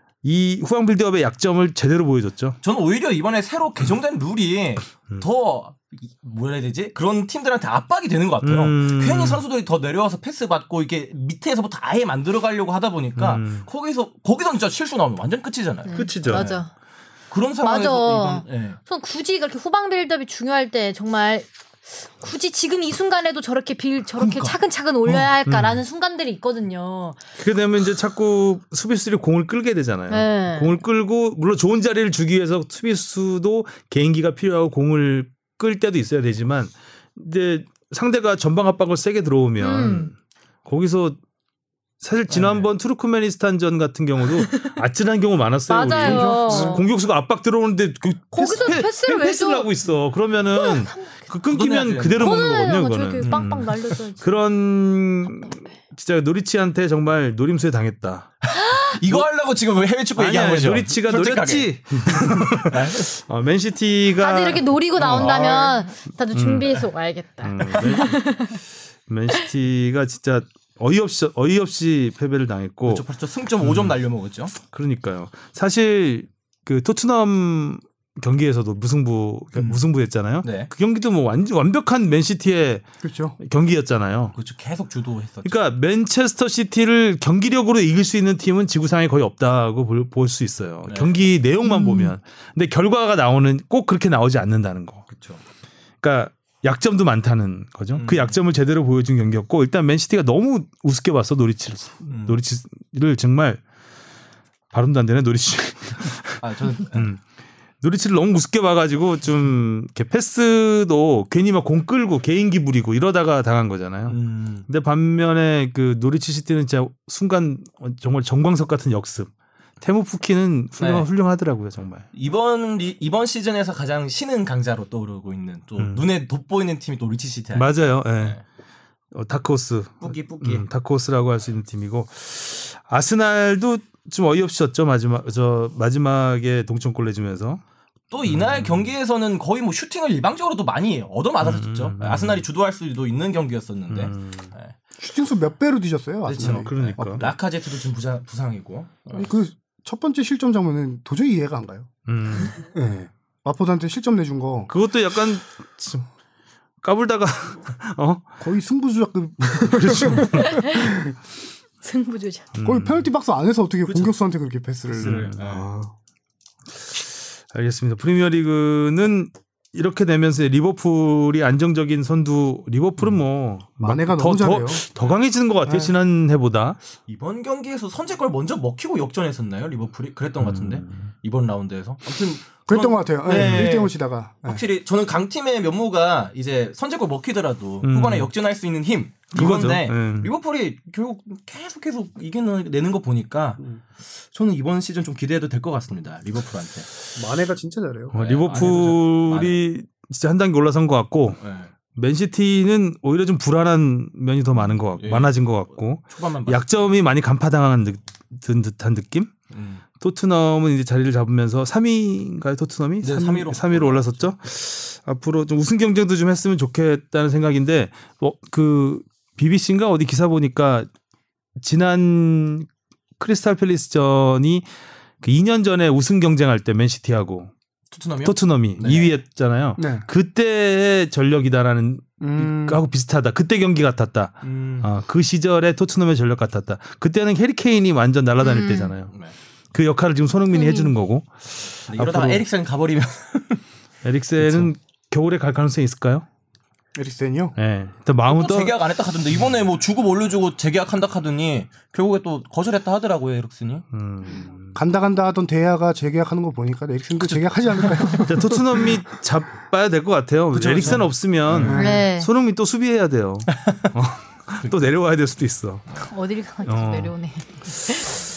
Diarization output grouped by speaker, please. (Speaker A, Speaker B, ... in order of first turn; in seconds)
Speaker A: 0.2-2.6, 8.4-9.4, 13.2-13.7, 15.9-16.5, 25.5-25.8, 27.4-41.2, 42.0-58.4, 60.2-65.7, 66.3-66.9, 67.4-73.0, 73.6-74.0, 74.6-82.8, 83.4-84.3, 85.4-95.1, 96.0-103.6, 104.7-106.4, 106.9-107.2, 107.8-122.1, 125.8-126.1, 127.5-128.4, 129.1-137.6, 138.3-138.9, 141.4-142.4, 143.9-144.5, 146.4-147.3, 152.1-152.6, 154.7-156.1, 156.8-158.3, 159.5-160.7, 162.6-163.1, 165.0-165.7, 167.5-176.8, 180.4-181.1, 183.3-183.7, 187.8-188.3, 189.3-190.3, 198.1-201.4, 201.9-209.3, 209.9-220.9, 221.6-222.7, 223.2-224.7, 225.2-227.5, 228.2-239.1, 239.7-242.4, 244.0-246.3, 247.6-248.7, 253.9-254.8, 258.2-265.9, 266.6-267.1
Speaker B: 2.6-16.6, 17.3-18.8, 24.2-25.3, 42.3-42.7, 51.5-52.5, 53.2-53.9, 58.5-63.1, 65.0-65.8, 72.8-74.5, 79.6-79.8, 80.4-80.7, 84.3-85.6, 90.9-91.2, 95.1-95.4, 97.9-98.4, 102.1-102.4, 106.4-107.1, 114.1-114.7, 120.8-121.1, 122.1-128.4, 130.0-130.7, 138.1-144.7, 146.2-149.3, 164.9-165.7, 177.1-196.9, 198.1-199.6, 201.4-201.7, 204.6-205.4, 206.0-206.8, 209.5-209.8, 213.0-214.3, 227.9-229.1, 234.4-234.9, 241.9-243.6, 244.4-244.7, 248.3-253.8, 257.1-258.3, 260.5-261.8, 263.5-263.9
Speaker C: 15.9-16.7, 17.6-27.2, 30.1-30.8, 39.6-40.1, 44.4-44.8, 45.7-46.9, 48.3-49.7, 50.5-51.3, 52.2-54.3, 58.5-59.0, 64.2-68.6, 91.6-92.1, 160.3-160.9, 161.8-162.5, 238.4-238.9, 240.5-240.9, 261.7-262.3, 265.9-268.2
Speaker D: 46.0-46.9, 83.0-83.4, 145.0-147.3, 149.1-151.9, 152.5-154.7, 158.4-161.1, 162.6-165.9, 173.8-174.8, 175.7-175.9, 182.7-184.6, 197.2-198.1, 229.8-230.1, 232.2-232.8, 246.9-247.6, 254.7-258.9, 261.5-262.0